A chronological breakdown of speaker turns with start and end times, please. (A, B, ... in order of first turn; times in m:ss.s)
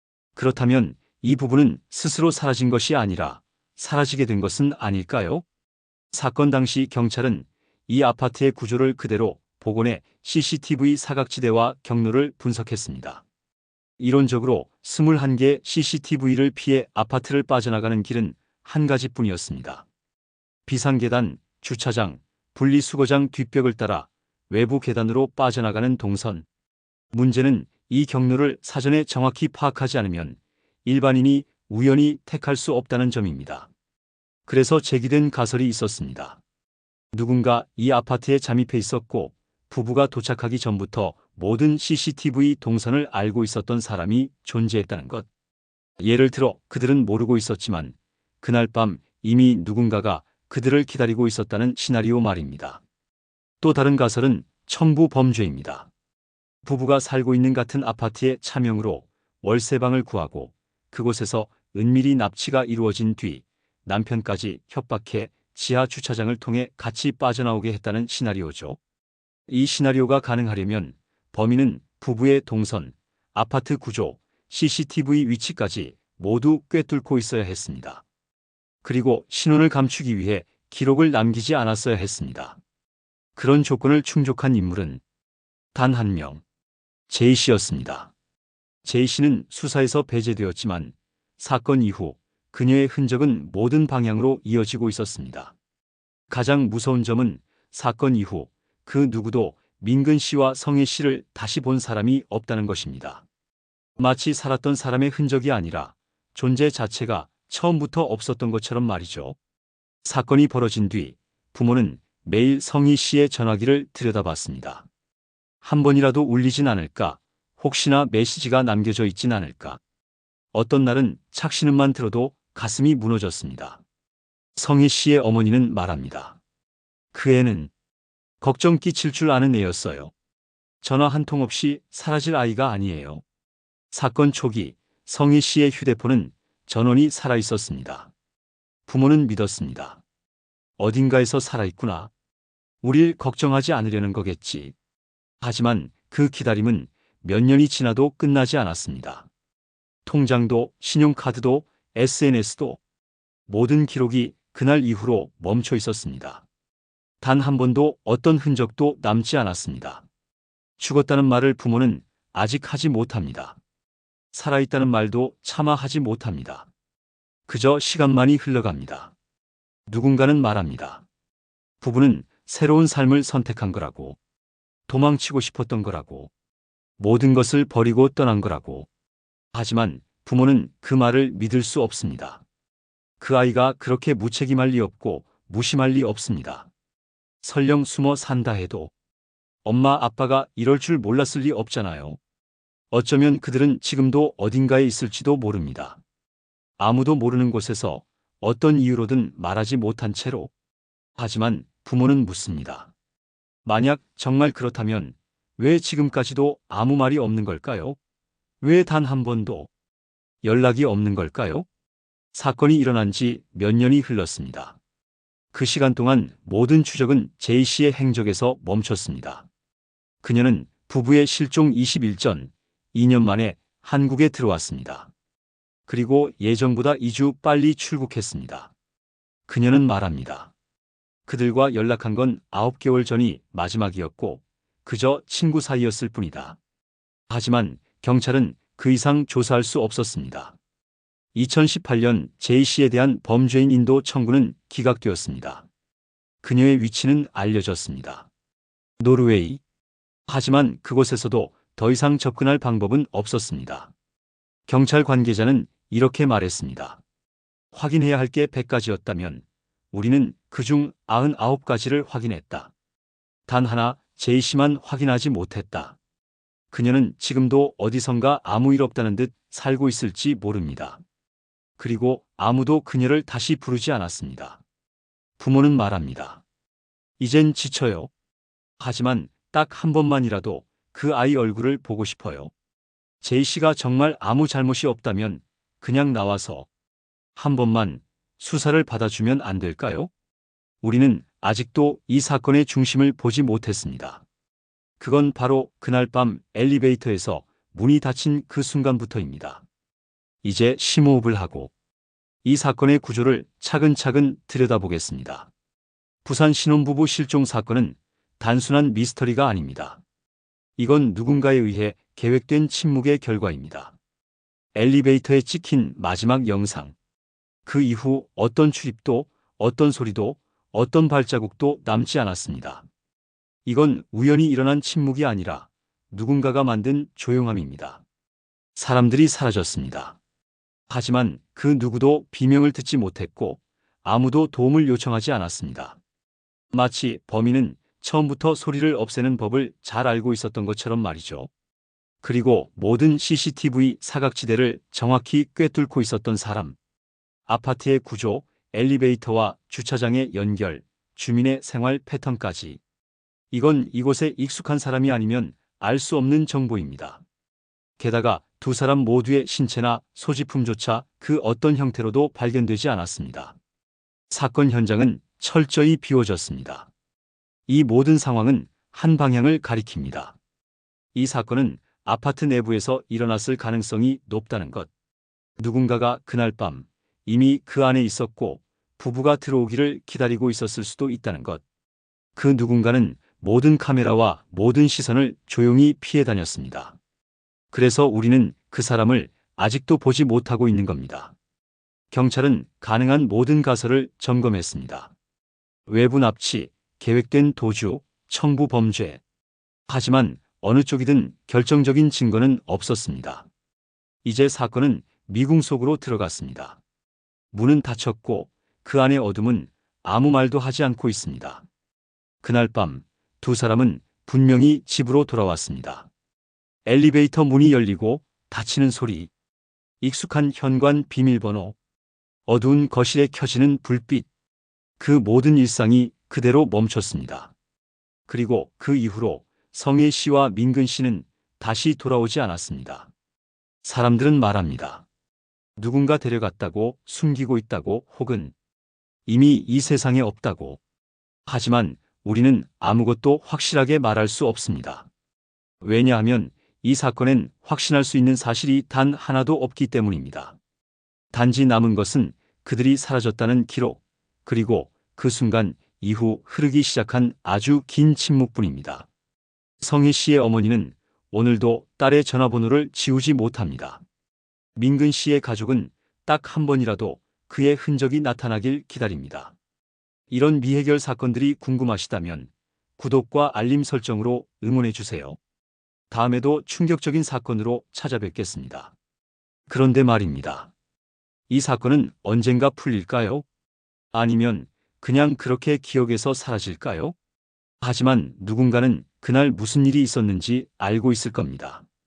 0:00.4-0:05.4 A
0:06.1-0:13.2 A
0:14.0-0:19.9 A
0:20.7-0:26.5 A
0:27.1-0:33.7 A
0:34.5-0:36.4 A
0:37.1-0:45.3 A
0:46.0-0:52.8 A
0:53.6-0:55.9 A
0:56.6-1:08.8 A
1:09.5-1:18.0 A
1:18.8-1:22.6 A
1:23.4-1:25.0 A
1:25.7-1:26.4 A
1:27.1-1:28.1 A
1:28.8-1:35.6 A
1:36.3-1:43.2 A
1:44.0-1:49.4 A
1:50.0-1:54.9 A
1:55.6-1:59.8 A
2:00.5-2:03.8 A
2:04.6-2:06.4 A
2:07.1-2:07.7 A
2:08.4-2:10.1 A
2:10.8-2:13.2 A
2:13.9-2:18.1 A
2:18.9-2:20.0 A
2:20.8-2:22.1 A
2:22.8-2:24.8 A
2:25.4-2:29.3 A
2:30.1-2:32.8 A
2:33.5-2:36.4 A
2:37.2-2:40.0 A
2:40.8-2:43.6 A
2:44.3-2:46.7 A
2:47.5-2:49.1 A
2:49.9-2:51.0 A
2:51.8-2:54.2 A
2:54.9-2:56.3 A
2:57.0-2:58.9 A
2:59.5-3:02.4 A
3:03.2-3:06.7 A
3:07.4-3:08.9 A
3:09.6-3:12.2 A
3:12.9-3:16.0 A
3:16.8-3:20.5 A
3:21.2-3:22.9 A
3:23.6-3:28.0 A
3:28.6-3:29.7 A
3:30.4-3:31.7 A
3:32.3-3:34.8 A
3:35.5-3:39.5 A
3:40.2-3:45.1 A
3:45.9-3:48.7 A
3:49.5-3:50.5 A
3:51.3-3:56.6 A
3:57.3-4:00.6 A
4:01.3-4:05.7 A
4:06.4-4:08.3 A
4:09.0-4:09.6 A
4:10.3-4:13.9 A
4:14.7-4:17.0 A
4:17.7-4:22.7 A
4:23.5-4:26.0 A
4:26.7-4:31.0 A
4:31.8-4:34.6 A
4:35.4-4:36.4 A
4:37.2-4:38.1 A
4:38.8-4:42.5 A
4:43.2-4:46.7 A
4:47.4-4:50.1 A
4:50.8-4:54.2 A
4:55.0-4:59.6 A
5:00.4-5:01.7 A
5:02.4-5:05.5 A
5:06.2-5:10.0 A
5:10.8-5:14.0 A
5:14.8-5:17.0 A
5:17.7-5:22.8 A
5:23.7-5:28.0 A
5:28.8-5:30.2 A
5:30.9-5:36.0 A
5:36.7-5:41.5 A
5:42.2-5:46.8 A
5:47.5-5:52.8 A
5:53.5-5:57.2 A
5:58.0-6:03.6 A
6:04.3-6:06.9 A
6:07.7-6:10.4 A
6:11.2-6:14.9 A
6:15.6-6:21.6 A
6:22.4-6:27.0 A
6:27.7-6:31.3 A
6:32.1-6:35.1 A
6:35.9-6:39.2 A
6:39.9-6:43.5 A
6:44.2-6:46.8 A
6:47.5-6:51.6 A
6:52.4-6:56.1 A
6:56.9-6:59.3 A
7:00.0-7:01.8 A
7:02.5-7:04.3 A
7:05.0-7:07.5 A
7:08.3-7:13.1 A
7:13.8-7:15.1 A
7:15.8-7:18.5 A
7:19.3-7:20.8 A
7:21.5-7:25.1 A
7:25.8-7:30.6 A
7:31.3-7:39.1 A
7:39.8-7:44.0 A
7:44.8-7:49.6 A
7:50.3-7:55.4 A
7:56.1-7:58.9 A
7:59.7-8:00.7 A
8:01.5-8:03.4 A
8:04.1-8:07.2 A
8:07.8-8:11.8 A